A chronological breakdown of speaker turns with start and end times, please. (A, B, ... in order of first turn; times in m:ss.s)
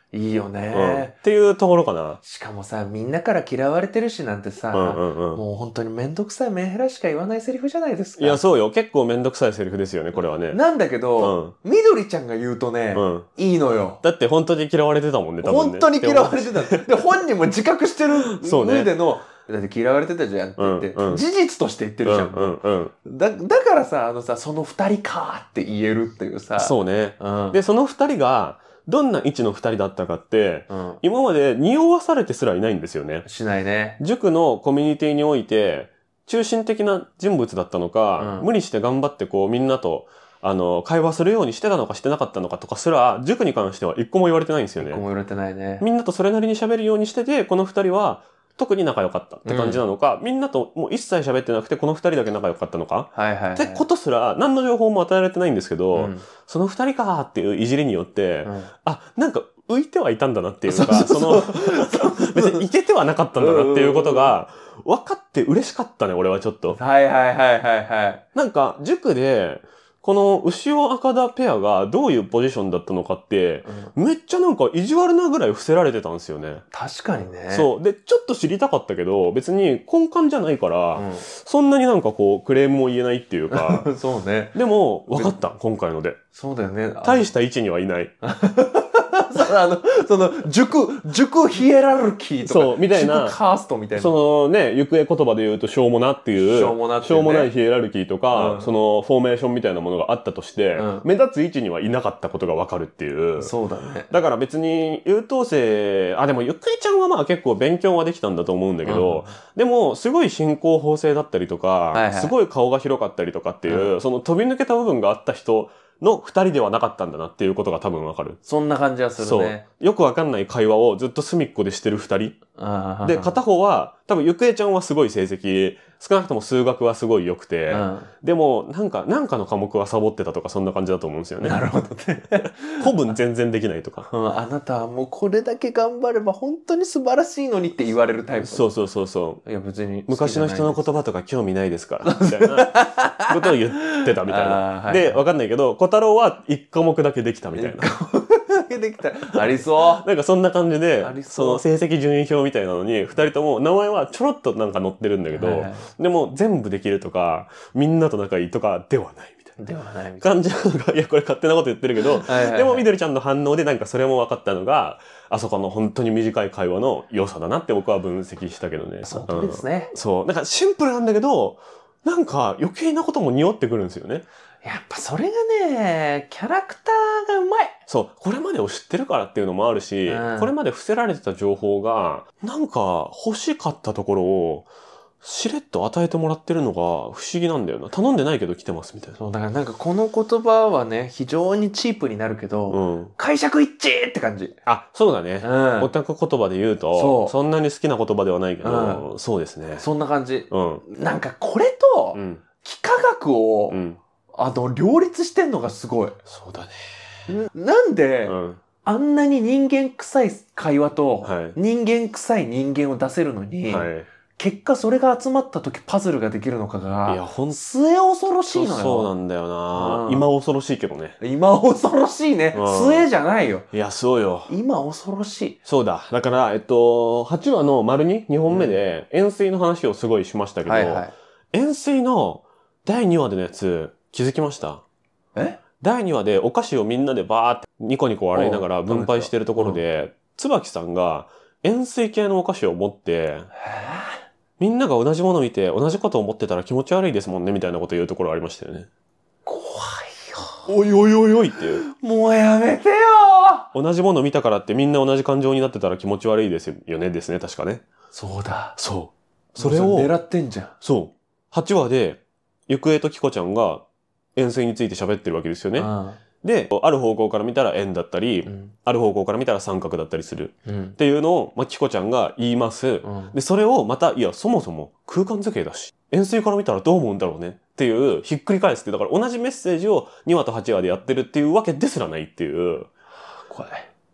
0:00.1-0:01.1 A
0:00.7-0:02.2 B
0:02.2-0:08.4 A
0:04.7-0:05.4 B
0:08.2-0:10.6 B
0:10.5-0:14.0 A
0:11.2-0:11.6 B
0:12.9-0:13.3 B
0:14.0-0:17.0 B
0:15.4-0:27.6 A
0:18.3-0:18.9 B
0:20.6-0:21.2 B
0:22.0-0:22.9 B
0:26.6-0:33.2 B
0:30.7-0:31.0 A
0:33.2-0:34.0 A
0:34.0-0:45.0 B
0:38.2-0:38.5 A
0:44.8-0:45.8 A
0:45.8-1:06.8 B
0:49.4-0:49.8 A
0:53.1-0:53.8 A
0:55.9-0:56.3 A
0:58.4-0:58.7 A
1:00.7-1:02.6 A
1:03.4-1:04.4 A
1:06.7-1:08.2 A
1:08.4-1:16.6 B
1:13.6-1:13.9 A
1:16.7-1:17.7 A
1:17.5-1:23.9 B
1:21.0-1:21.2 A
1:23.5-1:24.6 A
1:24.6-1:26.2 B
1:25.1-1:25.3 A
1:26.3-1:27.3 A
1:27.0-1:28.1 B
1:28.2-1:34.1 A
1:32.4-1:33.4 B
1:34.0-1:43.5 B
1:36.4-1:37.5 A
1:38.3-1:38.7 A
1:40.8-1:41.1 A
1:43.4-1:44.1 A
1:44.1-1:58.4 B
1:48.8-1:49.4 A
1:51.9-1:52.4 A
1:53.7-1:53.9 A
1:58.4-1:59.6 A
1:59.2-2:02.4 B
2:02.6-2:03.4 A
2:03.0-2:11.6 B
2:07.7-2:08.1 A
2:11.4-2:12.9 A
2:12.8-2:14.1 B
2:14.1-2:18.7 A
2:18.4-2:19.4 B
2:19.4-2:21.0 A
2:20.1-2:27.9 B
2:22.0-2:25.2 A
2:27.6-2:30.0 A
2:29.4-2:39.6 B
2:31.0-2:31.6 A
2:35.3-2:35.9 A
2:39.6-2:40.3 A
2:40.2-2:54.2 B
2:42.2-2:42.9 A
2:49.0-2:49.9 A
2:54.6-2:57.8 A
2:57.9-3:04.7 B
3:00.1-3:00.5 A
3:05.2-3:09.2 B
3:09.2-3:14.6 A
3:12.7-3:13.1 B
3:14.7-3:19.9 B
3:15.4-3:15.9 A
3:17.0-3:17.4 A
3:18.6-3:19.0 A
3:19.8-3:23.8 A
3:20.5-3:20.8 B
3:22.1-3:22.4 B
3:23.7-3:24.0 B
3:24.3-3:26.2 A
3:26.3-3:27.2 B
3:27.3-3:39.1 A
3:28.2-3:28.6 B
3:31.2-3:31.6 B
3:33.7-3:34.1 B
3:37.1-3:37.6 B
3:38.5-3:41.2 B
3:39.7-3:40.2 A
3:41.2-3:43.7 A
3:42.5-3:43.1 B
3:43.7-3:44.5 B
3:44.5-3:45.6 A
3:45.7-3:54.8 B
3:48.5-3:48.8 A
3:50.6-3:51.1 A
3:55.8-4:03.5 B
3:58.3-3:59.8 A
4:03.6-4:04.2 A
4:04.6-4:08.9 B
4:09.5-4:10.7 A
4:10.7-4:11.8 B
4:11.9-4:13.7 A
4:13.7-4:17.8 B
4:18.1-4:18.8 A
4:18.8-4:20.1 B
4:19.6-4:20.7 A
4:20.8-4:23.8 B
4:24.4-4:25.9 B
4:25.8-4:26.2 A
4:26.4-4:42.9 B
4:28.5-4:28.7 A
4:30.7-4:31.0 A
4:33.0-4:33.4 A
4:43.5-4:43.9 A